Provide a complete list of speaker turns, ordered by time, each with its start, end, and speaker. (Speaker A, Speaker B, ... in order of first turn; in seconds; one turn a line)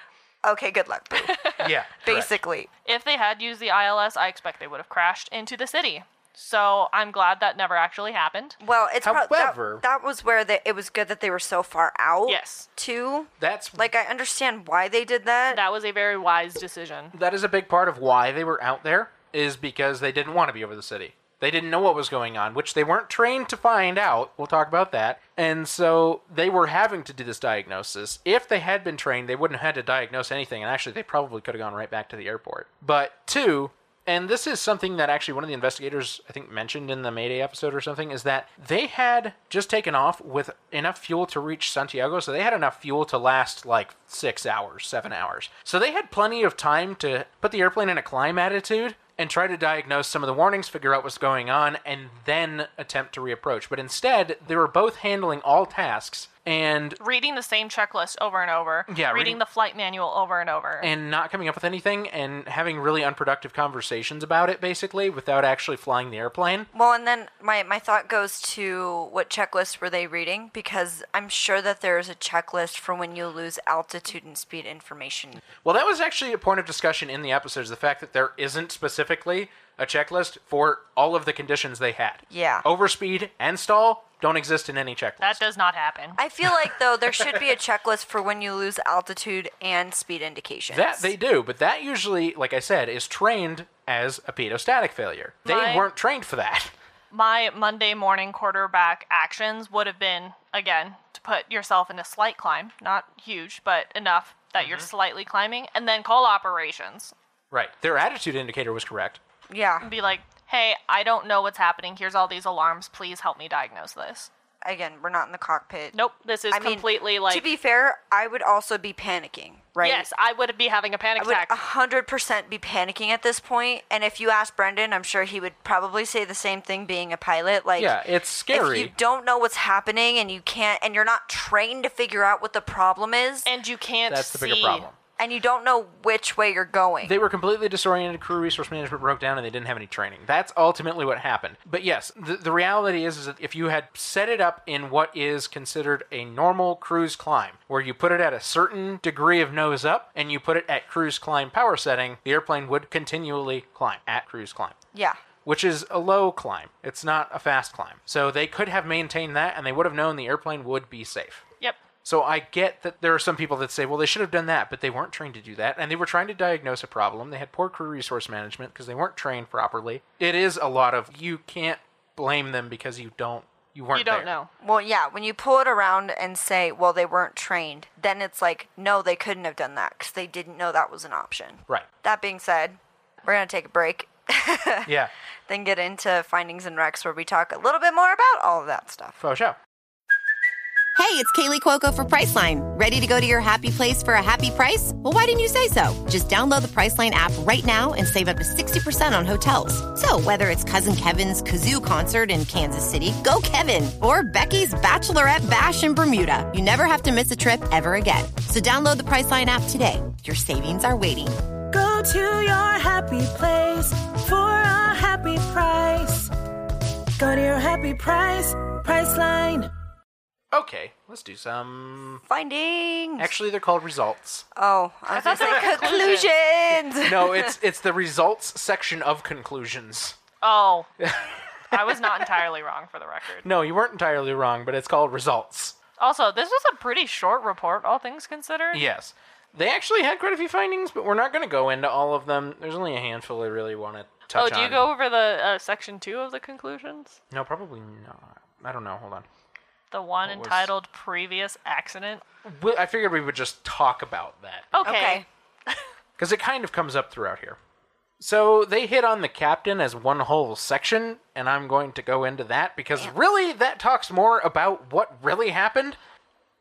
Speaker A: 0.4-2.7
Speaker B: 1.3-1.6
Speaker C: 1.6-2.3
Speaker B: 2.8-8.6
Speaker A: 8.6-15.6
Speaker C: 9.0-9.8
Speaker B: 12.3-12.7
Speaker C: 13.4-13.9
Speaker B: 15.5-17.1
Speaker C: 17.1-57.0
Speaker B: 57.0-60.9
Speaker C: 58.9-59.4
Speaker C: 60.8-66.7
Speaker A: 66.7-75.4
Speaker C: 75.6-85.4
Speaker A: 82.3-82.6
Speaker B: 85.2-86.2
Speaker A: 86.2-91.1
Speaker C: 86.4-87.4
Speaker C: 90.7-96.7
Speaker B: 95.4-95.9
Speaker B: 97.1-107.1
Speaker C: 104.6-104.9
Speaker C: 107.5-109.2
Speaker A: 109.5-109.9
Speaker B: 109.8-114.3
Speaker A: 114.6-116.0
Speaker B: 115.9-117.5
Speaker A: 116.5-120.1
Speaker B: 119.8-121.6
Speaker A: 121.2-128.0
Speaker C: 127.8-128.9
Speaker A: 128.5-133.5
Speaker B: 133.4-134.8
Speaker C: 134.1-134.9
Speaker A: 135.2-137.2
Speaker C: 137.0-154.8
Speaker A: 154.9-155.2
Speaker C: 155.4-161.4
Speaker C: 162.0-174.3
Speaker B: 173.9-174.5
Speaker A: 174.6-184.9
Speaker C: 184.8-185.1
Speaker A: 185.5-189.2
Speaker C: 189.2-189.6
Speaker D: 190.9-211.3
Speaker E: 211.7-216.3
Speaker E: 217.2-219.7
Speaker C: 220.5-222.2
Speaker A: 222.3-223.3
Speaker C: 223.2-224.4
Speaker A: 224.5-227.5
Speaker B: 225.1-226.3
Speaker C: 225.4-225.7
Speaker C: 227.0-230.2
Speaker B: 230.4-230.9
Speaker C: 231.0-232.4
Speaker B: 231.7-233.4
Speaker C: 233.4-235.8
Speaker B: 236.0-238.8
Speaker C: 238.7-244.8
Speaker B: 244.3-247.2
Speaker C: 247.3-249.2
Speaker B: 249.9-252.2
Speaker C: 250.2-250.7
Speaker C: 252.4-254.7
Speaker B: 254.7-255.8
Speaker A: 254.8-255.2
Speaker C: 256.2-257.6
Speaker C: 258.2-266.0